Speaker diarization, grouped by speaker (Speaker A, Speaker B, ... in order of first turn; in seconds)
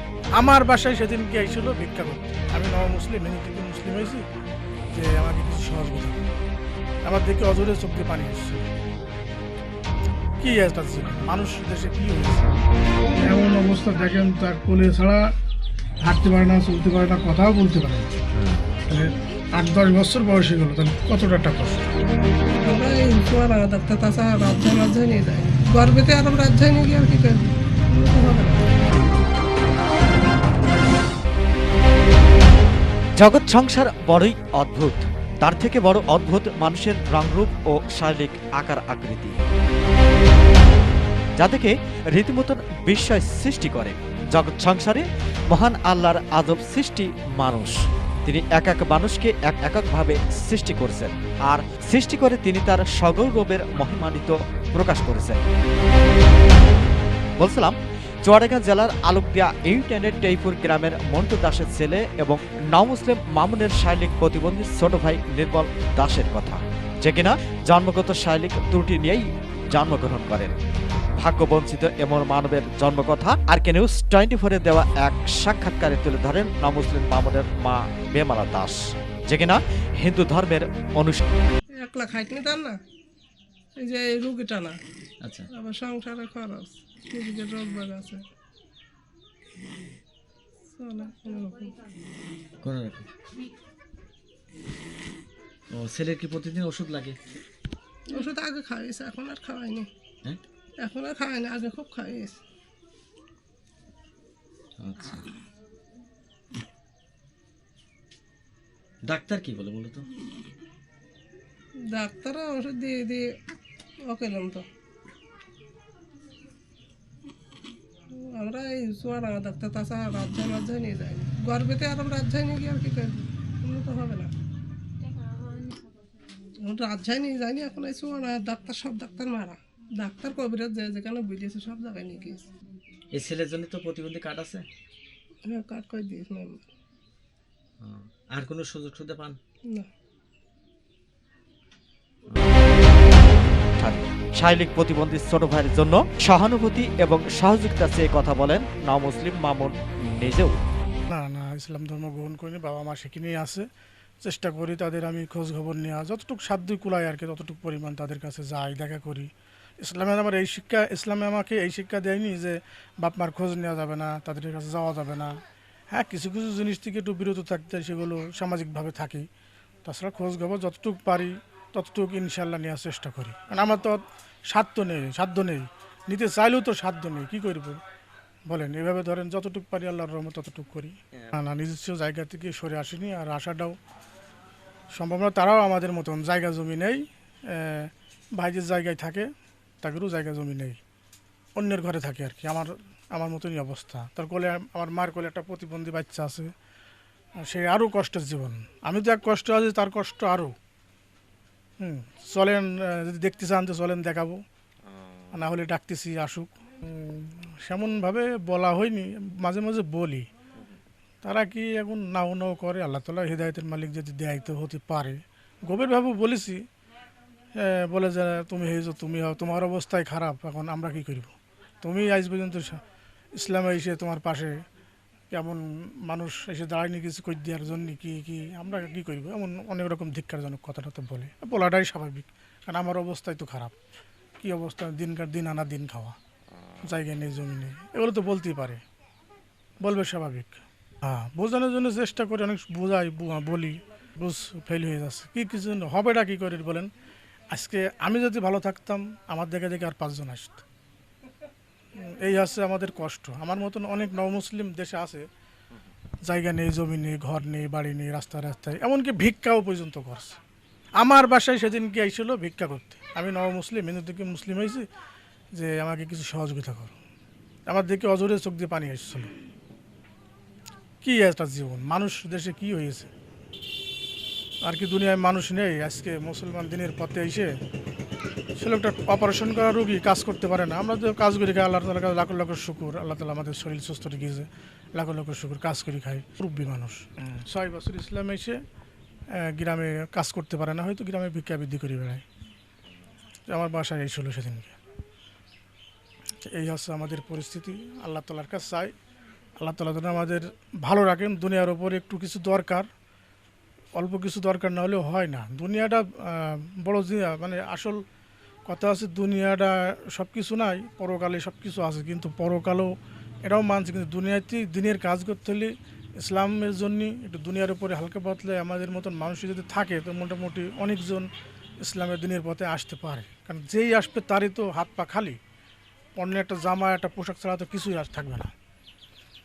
Speaker A: 0.3-4.2, 4.9-6.3, 7.0-8.7, 10.4-12.5, 13.2-15.2, 16.0-18.1, 18.9-21.9, 151.1-153.7, 154.2-165.3, 165.9-169.3, 169.8-177.8, 178.5-183.8, 184.9-189.3, 189.8-190.8, 191.6-196.5, 197.4-200.5, 201.8-204.4, 205.3-210.3, 211.2-216.6, 217.6-222.8, 223.3-224.6, 225.3-233.7, 234.4-236.2, 236.8-238.8, 239.8-246.9, 247.5-250.7, 252.0-255.2, 256.2-260.4, 261.0-264.9, 265.5-266.9, 267.7-269.3, 271.0-273.1, 274.6-277.5, 278.6-288.6, 289.4-292.2, 293.5-294.8, 296.5-298.9, 299.6-302.9, 303.9-308.0, 308.6-312.9, 313.4-325.4, 326.1-328.5
Speaker B: 22.6-28.7, 81.8-82.8, 83.8-84.8, 85.5-88.2, 90.7-91.7, 98.1-99.9, 100.8-102.4, 111.9-113.3, 114.1-114.6, 118.1-124.3, 126.7-132.5, 135.4-136.7
Speaker C: 33.2-39.4, 41.4-55.4, 57.4-70.6, 71.2-81.2, 143.8-150.6
Speaker D: 85.2-85.5, 92.6-93.1, 95.7-97.2, 104.8-105.3, 109.0-110.1, 133.1-134.7, 137.8-139.4, 142.3-142.7